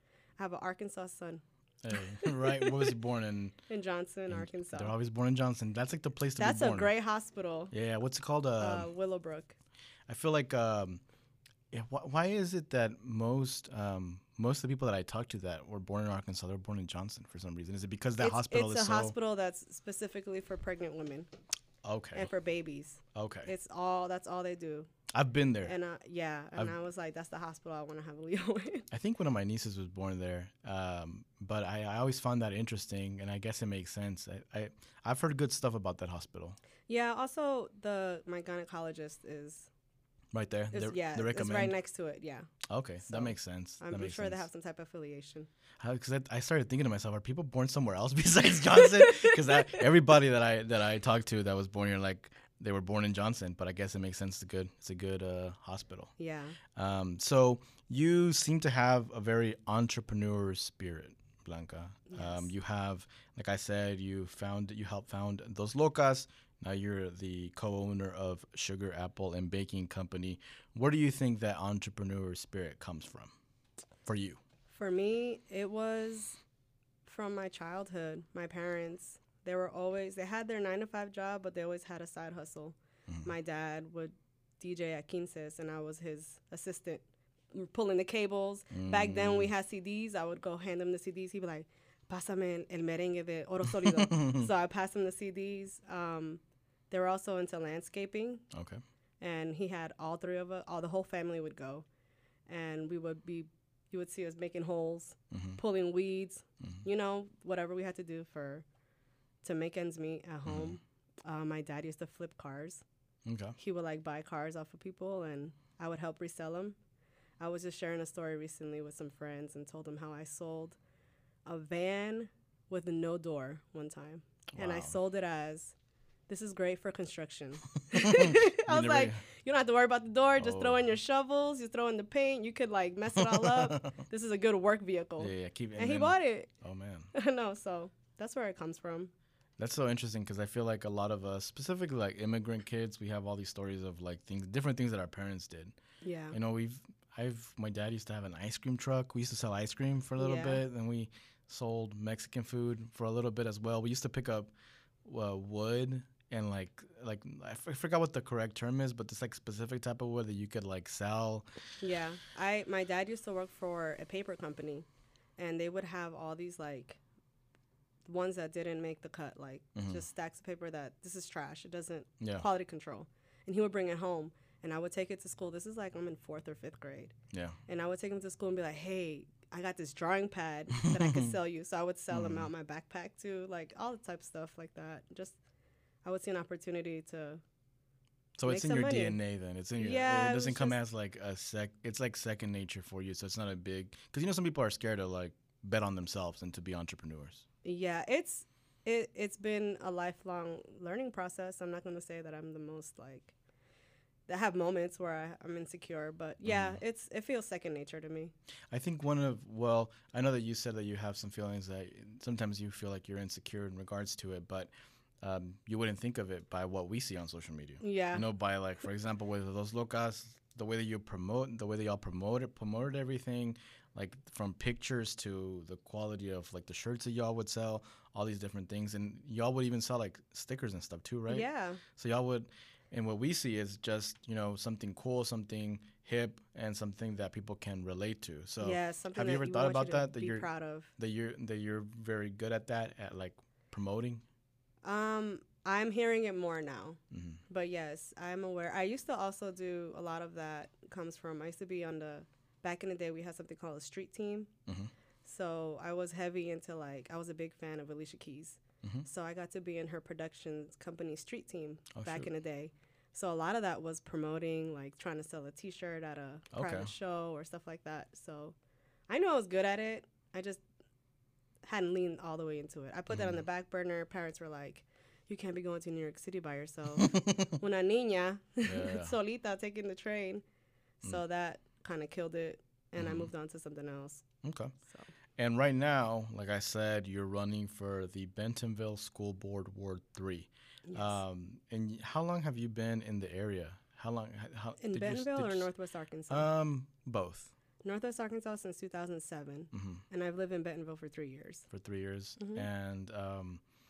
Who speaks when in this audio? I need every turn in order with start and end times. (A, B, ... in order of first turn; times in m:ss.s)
0:00.4-0:02.9 A
0:01.8-0:03.6 B
0:03.7-0:04.9 A
0:04.3-0:06.9 B
0:06.4-0:07.7 A
0:07.7-0:08.9 B
0:08.6-0:09.6 A
0:10.1-0:11.0 B
0:11.7-0:19.2 B
0:18.2-0:21.3 A
0:21.8-0:22.3 B
0:22.1-0:24.9 A
0:23.1-0:23.5 B
0:25.1-0:25.8 B
0:25.6-0:28.9 A
0:28.9-0:36.6 B
0:36.9-0:39.7 A
0:40.3-0:41.7 B
0:40.7-0:42.5 A
0:42.7-0:44.4 B
0:43.0-0:45.5 A
0:45.8-0:56.1 B
0:49.0-0:49.8 A
0:56.2-0:56.6 A
0:56.7-1:13.3 B
1:02.1-1:02.5 A
1:14.0-1:14.4 B
1:14.7-1:16.4 A
1:17.0-1:38.4 A
1:28.7-1:29.5 B
1:33.6-1:34.5 B
1:38.5-1:38.8 B
1:39.2-1:41.8 A
1:42.5-1:48.6 A
1:45.3-1:45.6 B
1:49.4-1:52.8 A
1:50.4-1:50.7 B
1:53.2-1:53.6 B
1:53.6-1:56.8 A
1:57.4-2:00.8 A
2:01.4-2:05.7 A
2:04.5-2:04.9 B
2:06.3-2:16.5 A
2:07.9-2:09.2 B
2:10.4-2:10.9 B
2:13.1-2:13.9 B
2:15.2-2:17.1 B
2:17.1-2:19.1 A
2:19.6-2:25.8 B
2:26.0-2:26.4 A
2:26.3-2:34.5 B
2:30.2-2:30.6 A
2:35.0-2:41.5 B
2:41.8-2:44.8 A
2:45.4-2:47.0 A
2:48.0-2:57.1 A
2:49.8-2:50.0 B
2:52.2-2:52.4 B
2:57.3-2:57.6 B
2:57.7-3:05.4 A
3:00.8-3:01.3 B
3:02.1-3:02.5 B
3:06.0-3:07.4 A
3:08.4-3:17.4 B
3:08.4-3:09.2 A
3:09.8-3:10.8 A
3:17.6-3:23.3 A
3:24.3-3:28.3 A
3:26.4-3:26.8 B
3:28.7-3:34.7 B
3:35.2-4:04.2 B
3:37.8-3:38.3 A
3:51.3-3:51.8 A
3:58.6-4:00.9 A
4:04.8-4:14.5 A
4:07.1-4:07.4 B
4:14.7-4:14.9 B
4:15.2-4:28.6 A
4:21.9-4:22.3 B
4:26.5-4:26.9 B
4:29.1-4:30.6 A
4:31.6-4:40.4 A
4:33.1-4:33.4 B
4:37.0-4:37.5 B
4:38.6-4:39.2 B
4:41.0-4:44.2 A
4:43.0-4:43.3 B
4:44.4-4:44.7 B
4:45.4-4:55.7 B
4:50.8-4:51.2 A
4:54.8-4:56.5 A
4:56.3-4:57.5 B
4:57.8-5:01.7 A
4:59.7-5:00.0 B
5:01.7-5:03.6 B
5:02.4-5:02.6 A